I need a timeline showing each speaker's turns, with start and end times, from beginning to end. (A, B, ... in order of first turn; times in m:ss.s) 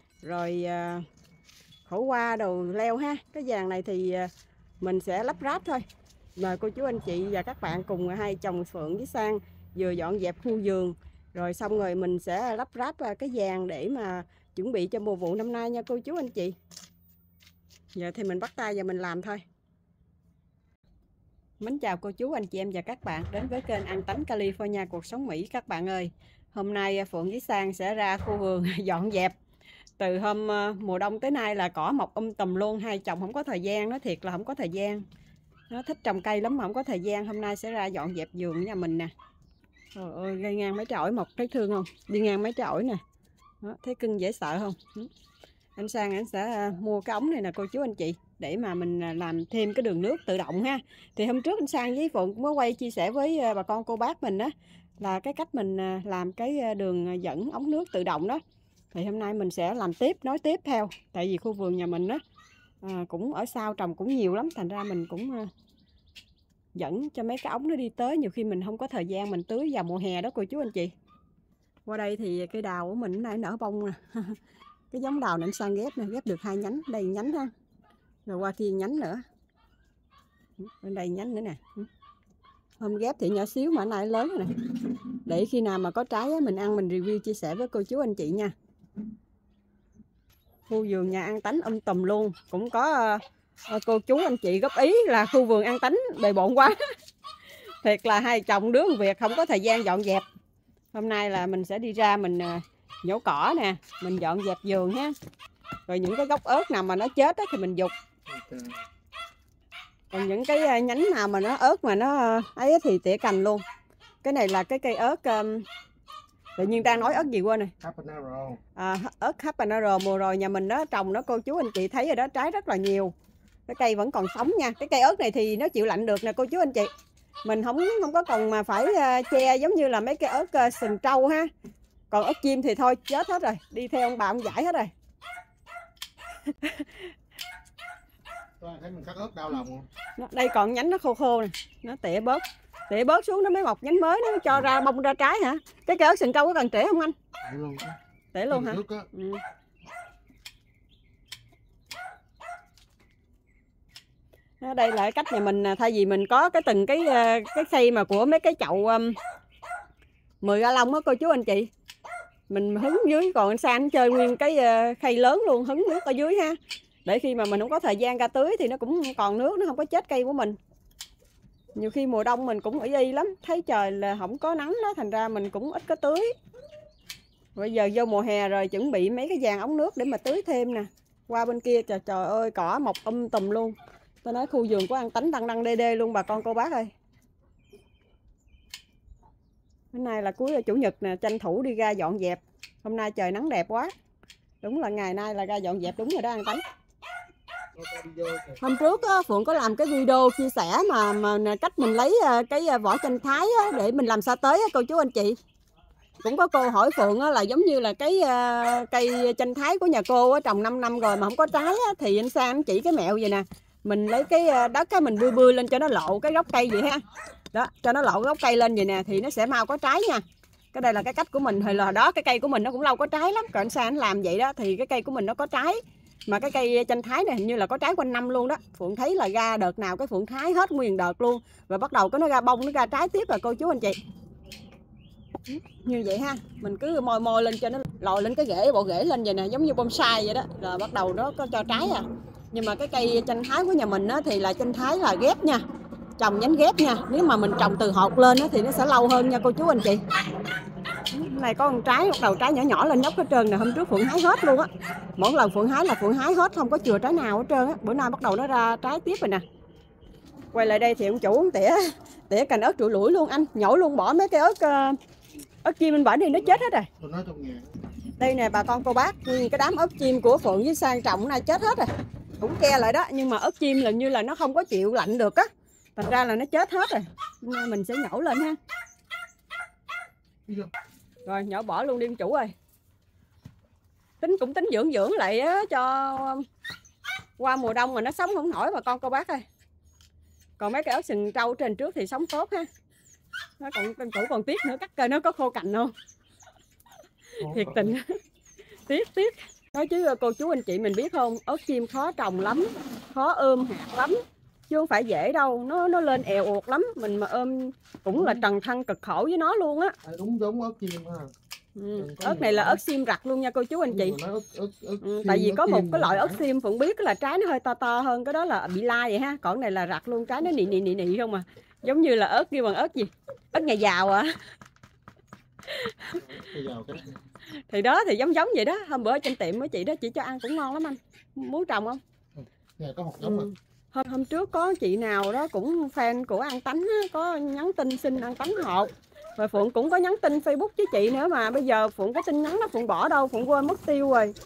0:00.2-0:01.1 A
0:01.9-0:04.3 A
0:04.8-0:05.8 A
0:06.4-0:16.6 A
0:17.9-0:19.4 A
0:21.6-0:29.3 A
0:30.0-0:35.0 A
0:35.7-0:39.1 A
0:39.9-0:43.0 A
0:43.6-0:45.1 A
0:45.8-0:58.4 A
0:58.9-1:02.2 A
1:02.8-1:05.5 A
1:06.8-1:10.9 A
1:11.9-1:14.4 A
1:14.9-1:17.5 A
1:18.3-1:19.2 A
1:20.6-1:21.9 A
1:22.8-1:24.6 A
1:25.2-1:28.5 A
1:30.7-1:36.8 A
1:37.8-1:40.3 A
1:40.9-1:45.1 A
1:45.9-1:47.9 A
1:48.3-1:48.8 B
1:50.1-1:53.6 A
1:54.2-1:55.7 A
1:56.6-1:57.7 A
1:56.6-1:57.3 B
1:57.8-1:58.6 B
1:58.8-2:03.1 A
2:03.7-2:06.9 A
2:07.4-2:11.5 A
2:12.1-2:14.9 A
2:16.5-2:17.1 A
2:18.6-2:19.9 B
2:20.2-2:27.2 A
2:27.4-2:28.0 B
2:28.3-2:29.4 A
2:28.5-2:29.1 B
2:34.6-2:39.2 A
2:40.4-2:41.7 A
2:42.5-2:50.6 A
2:51.8-2:56.3 A
2:57.6-3:06.9 A
3:09.9-3:13.9 A
3:14.6-3:16.6 A
3:17.8-3:19.2 B
3:18.6-3:25.4 A
3:26.2-3:54.0 A
3:55.5-4:05.6 A
4:06.2-4:10.0 A
4:11.1-4:19.4 A
4:20.5-4:25.0 A
4:25.6-4:26.9 A
4:26.3-4:27.7 B
4:28.2-4:31.9 A
4:32.4-4:38.6 A
4:41.2-4:42.5 A
4:44.2-4:46.5 A
4:47.4-4:49.4 A
4:50.6-4:52.7 A
4:53.6-4:55.9 A
4:57.4-4:58.0 B
4:57.4-4:58.1 A
4:58.9-5:10.0 A
5:08.1-5:08.4 B
5:10.0-5:11.3 B
5:11.8-5:14.2 A
5:12.0-5:12.8 B
5:13.9-5:16.4 B
5:15.0-5:24.4 A
5:25.7-5:26.2 A
5:26.1-5:27.2 B
5:27.6-5:32.0 A
5:32.4-5:33.5 B
5:33.2-5:44.3 A